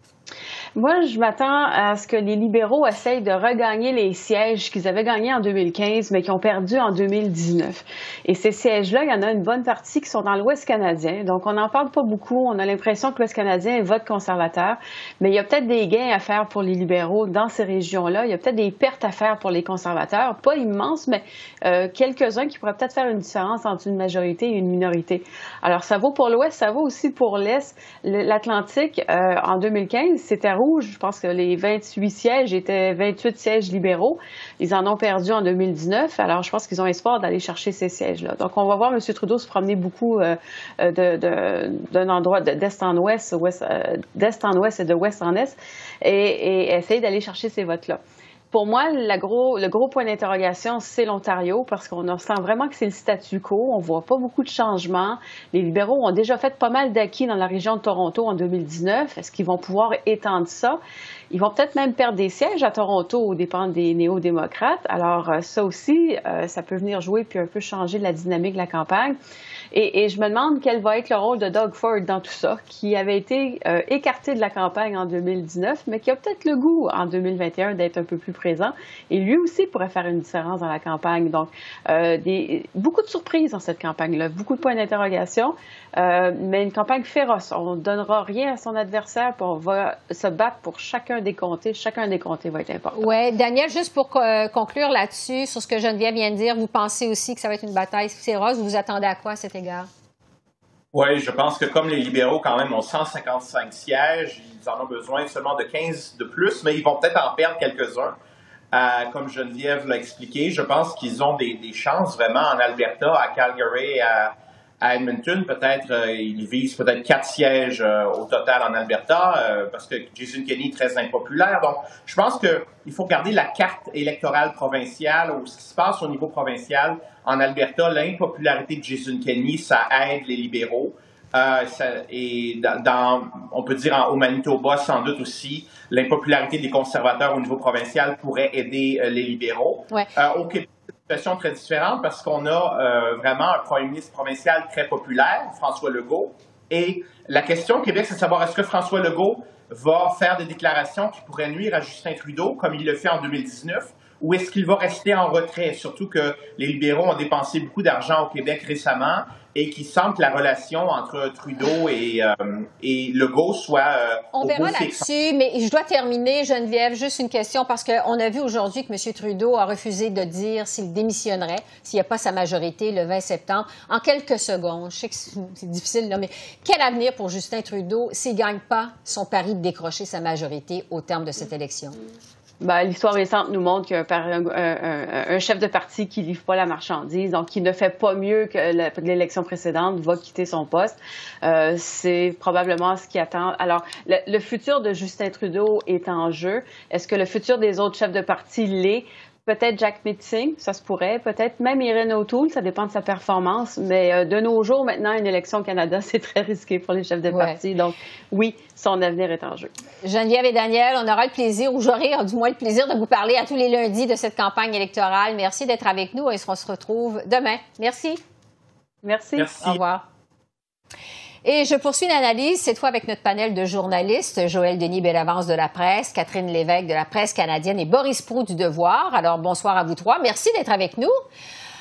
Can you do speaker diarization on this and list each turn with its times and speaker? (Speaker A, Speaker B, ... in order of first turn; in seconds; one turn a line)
Speaker A: 0.8-60.8
Speaker A: 61.3-69.2
Speaker A: 69.7-93.1
Speaker B: 92.9-99.9
Speaker C: 100.9-108.2
Speaker C: 108.7-165.1
Speaker B: 164.3-182.0
Speaker A: 182.6-209.7
Speaker B: 207.3-207.6
Speaker B: 210.0-218.2
Speaker A: 219.0-219.5
Speaker C: 219.4-219.8
Speaker B: 219.6-220.0
Speaker B: 221.4-231.2